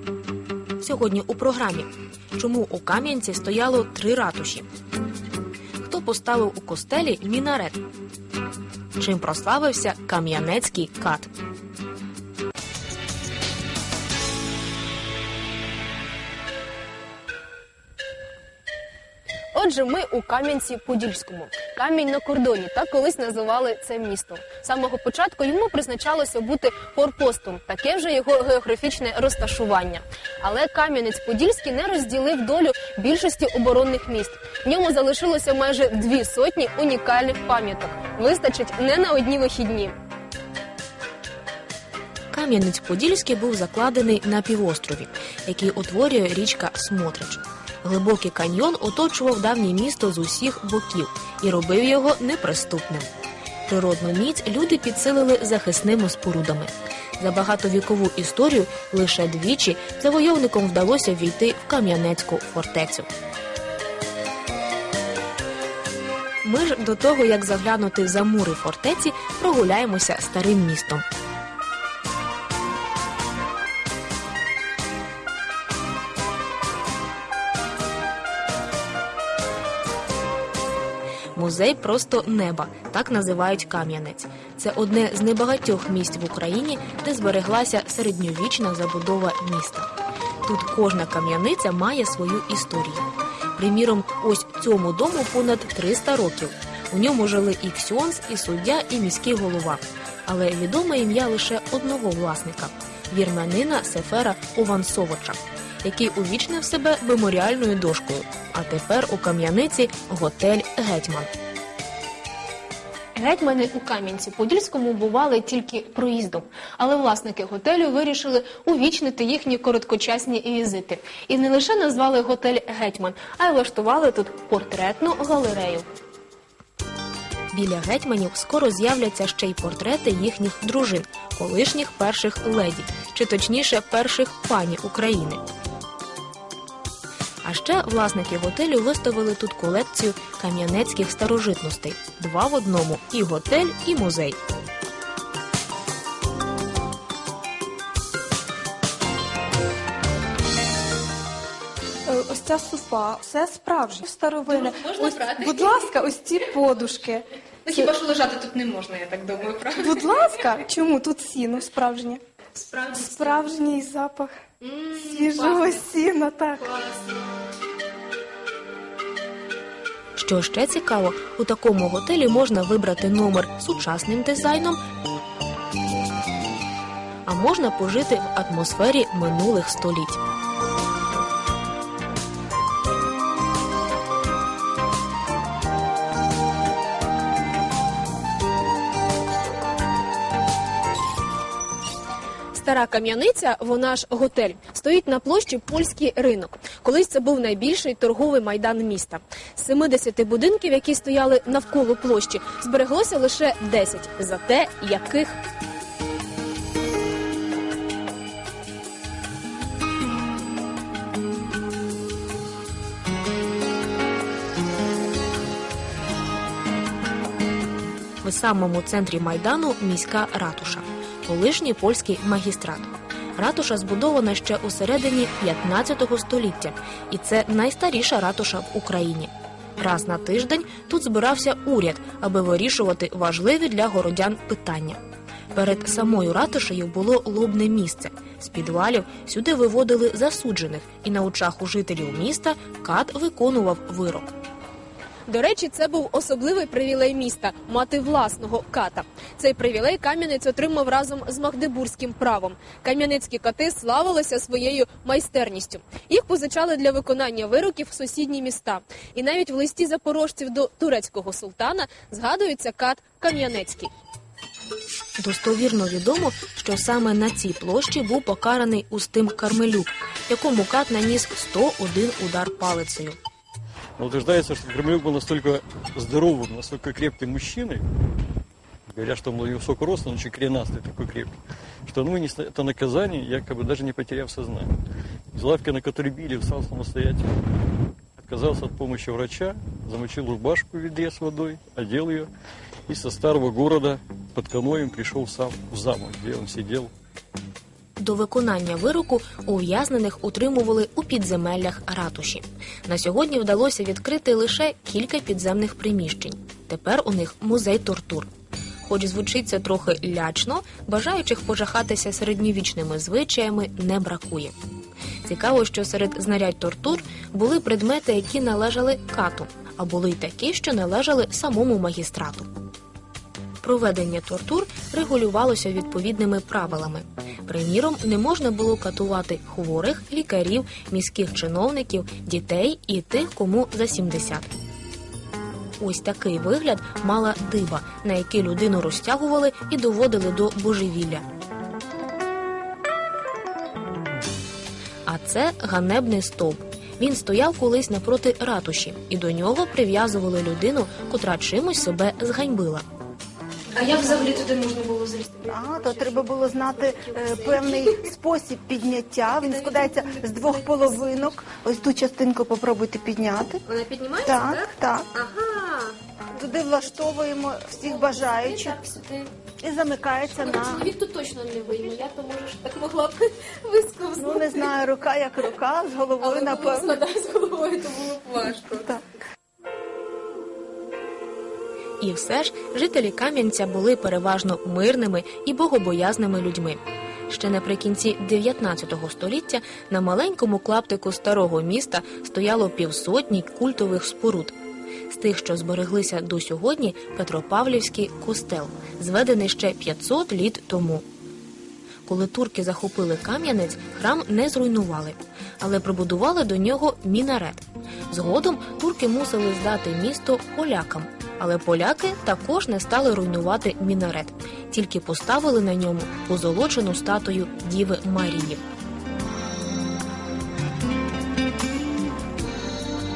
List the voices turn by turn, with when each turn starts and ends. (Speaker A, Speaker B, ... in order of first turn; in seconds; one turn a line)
Speaker A: 0.8-4.7
Speaker A: 5.8-7.8
Speaker A: 9.0-11.3
Speaker B: 19.5-40.0
Speaker A: 42.3-53.1
Speaker A: 53.7-63.1
Speaker A: 66.4-71.0
Speaker A: 81.3-89.9
Speaker A: 90.4-111.3
Speaker B: 113.2-125.9
Speaker A: 127.5-135.4
Speaker A: 137.4-144.4
Speaker C: 152.1-157.9
Speaker B: 154.4-155.9
Speaker B: 157.6-160.2
Speaker C: 159.8-162.2
Speaker B: 162.5-163.6
Speaker C: 162.9-164.3
Speaker B: 164.6-167.3
Speaker C: 164.9-166.7
Speaker A: 170.2-174.8
Speaker A: 177.3-180.2
Speaker B: 192.5-205.4
Speaker A: 218.2-235.0
Speaker A: 235.5-244.3
Speaker B: 245.3-263.9
Speaker A: 265.2-273.2
Speaker D: 274.0-277.9
Speaker D: 278.9-284.7
Speaker D: 285.3-287.3
Speaker D: 288.2-292.3
Speaker D: 292.9-296.9
Speaker A: 298.0-308.3
Speaker A: 308.8-314.5
Speaker A: 315.2-322.5
Speaker A: 323.6-334.5
Speaker A: 335.8-341.2
Speaker A: 345.1-352.9
Speaker B: 353.7-358.1
Speaker E: 355.5-363.6
Speaker B: 359.4-361.2
Speaker B: 363.6-366.0
Speaker E: 364.2-365.1
Speaker E: 366.4-368.8
Speaker B: 367.8-369.3
Speaker E: 369.6-370.9
Speaker B: 370.3-374.7
Speaker E: 374.2-377.0
Speaker B: 376.2-378.9
Speaker E: 378.7-379.0
Speaker A: 382.0-394.6
Speaker A: 395.1-401.1
Speaker A: 402.1-418.6